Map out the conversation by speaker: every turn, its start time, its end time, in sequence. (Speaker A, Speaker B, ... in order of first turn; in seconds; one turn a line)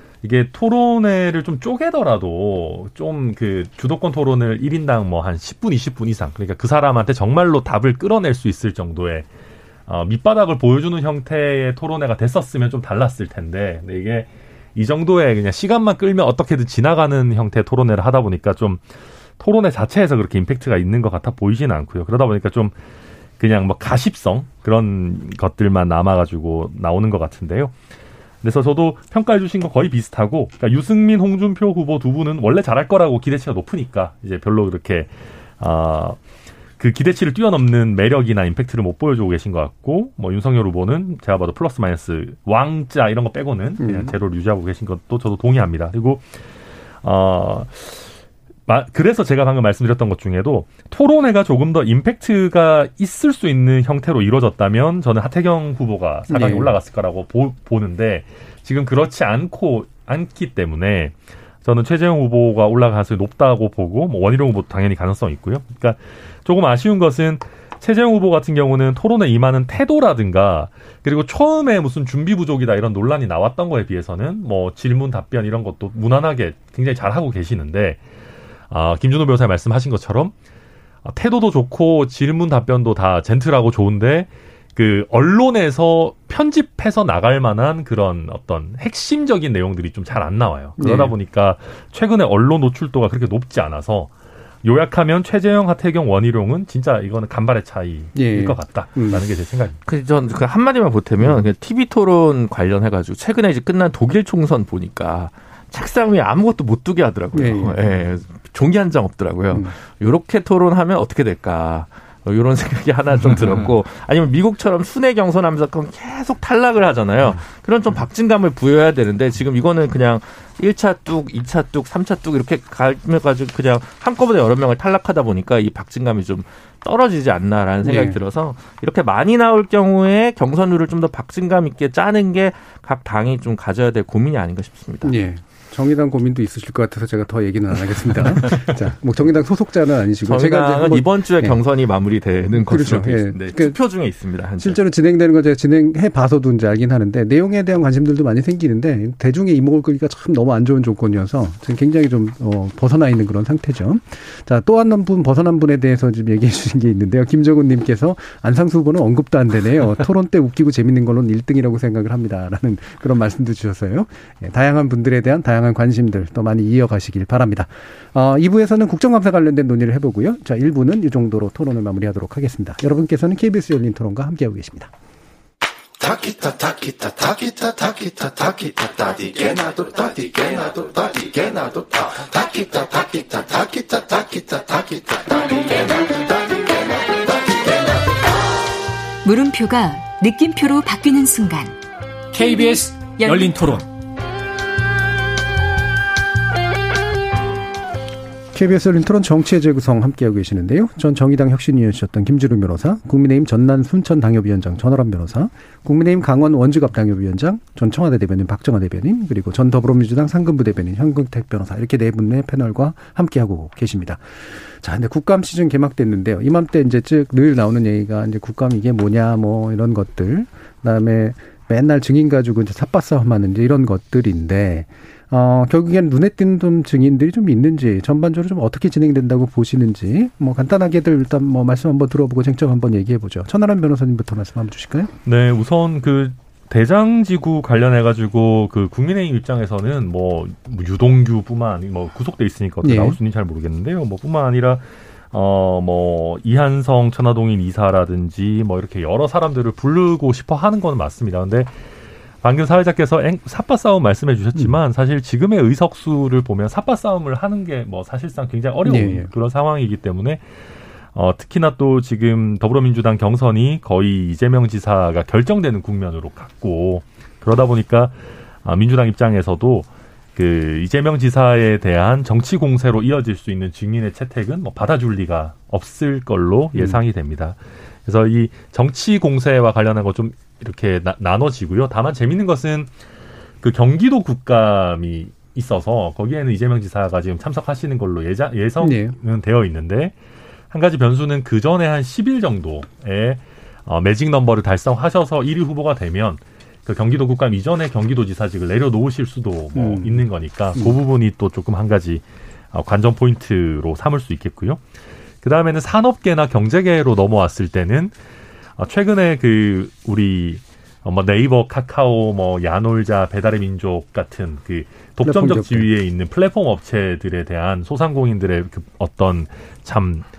Speaker A: 0.2-9.3
Speaker A: 9.9-18.8
Speaker A: 19.4-22.8
Speaker A: 23.4-27.8
Speaker A: 28.4-36.2
Speaker A: 36.8-46.4
Speaker B: 43.8-44.1
Speaker A: 47.0-48.1
Speaker A: 48.7-78.0
Speaker B: 56.3-56.8
Speaker A: 78.7-80.3
Speaker A: 81.0-99.8
Speaker B: 90.8-91.1
Speaker B: 98.2-99.2
Speaker C: 99.9-135.2
Speaker B: 107.3-107.8
Speaker B: 127.8-128.2
Speaker B: 135.0-141.6
Speaker C: 140.2-144.8
Speaker B: 142.5-143.8
Speaker B: 144.6-174.9
Speaker D: 176.1-184.6
Speaker E: 189.2-191.8
Speaker D: 192.3-193.8
Speaker E: 193.1-193.6
Speaker B: 198.5-235.1
Speaker A: 235.2-251.7
Speaker B: 242.8-243.2
Speaker A: 252.4-260.4
Speaker B: 258.8-259.3
Speaker A: 261.1-282.9
Speaker B: 276.7-277.0
Speaker A: 283.6-290.2
Speaker B: 288.8-289.1
Speaker A: 290.7-304.8
Speaker B: 299.7-301.0
Speaker A: 305.4-308.1
Speaker A: 308.8-320.3
Speaker B: 315.2-315.9